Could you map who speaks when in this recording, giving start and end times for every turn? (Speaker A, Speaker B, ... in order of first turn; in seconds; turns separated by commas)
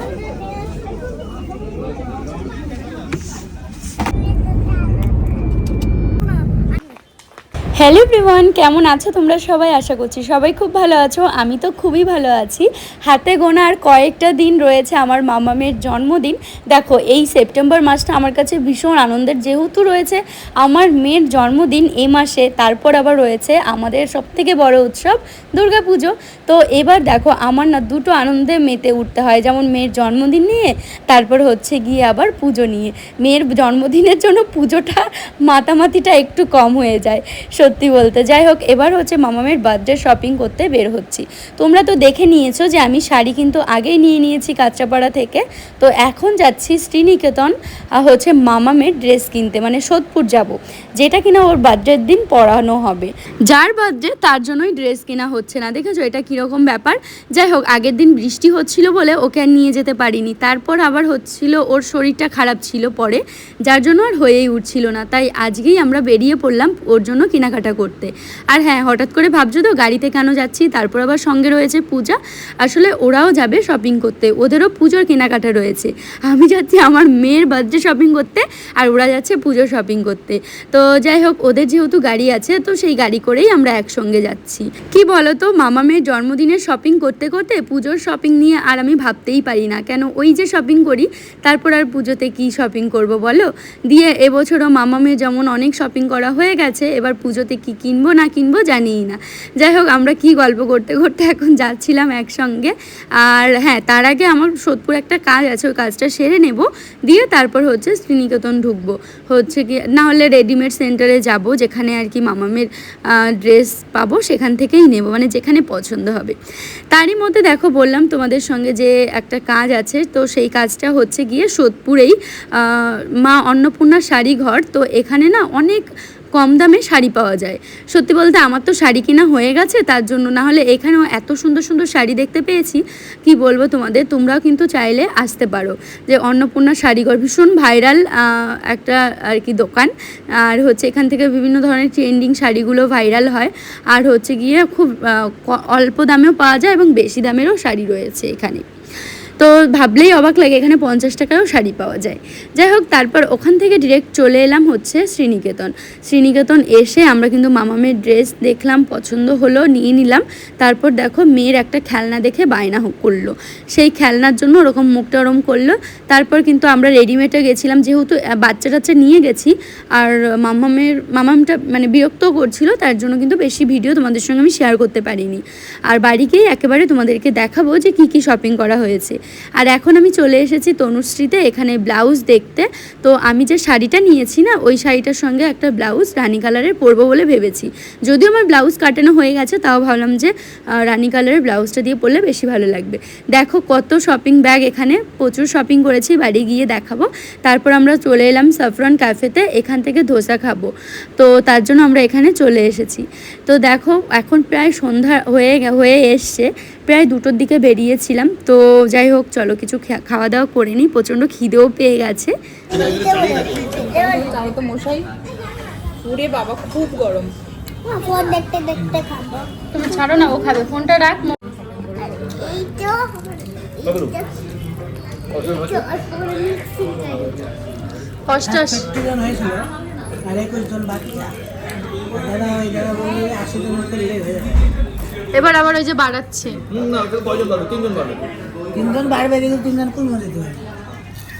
Speaker A: 7.8-116.3, Speaker A: 116.9-148.7, Speaker A: 149.4-212.3, Speaker B: 212.9-213.5, Speaker C: 213.4-215.1, Speaker C: 216.0-217.3, Speaker B: 217.9-219.5, Speaker A: 219.7-221.4, Speaker C: 221.8-222.2, Speaker B: 222.1-224.3, Speaker B: 225.4-227.3, Speaker A: 228.2-229.0, Speaker D: 228.6-229.6, Speaker D: 230.2-231.3, Speaker D: 232.1-234.5, Speaker A: 235.3-236.6, Speaker D: 238.7-240.6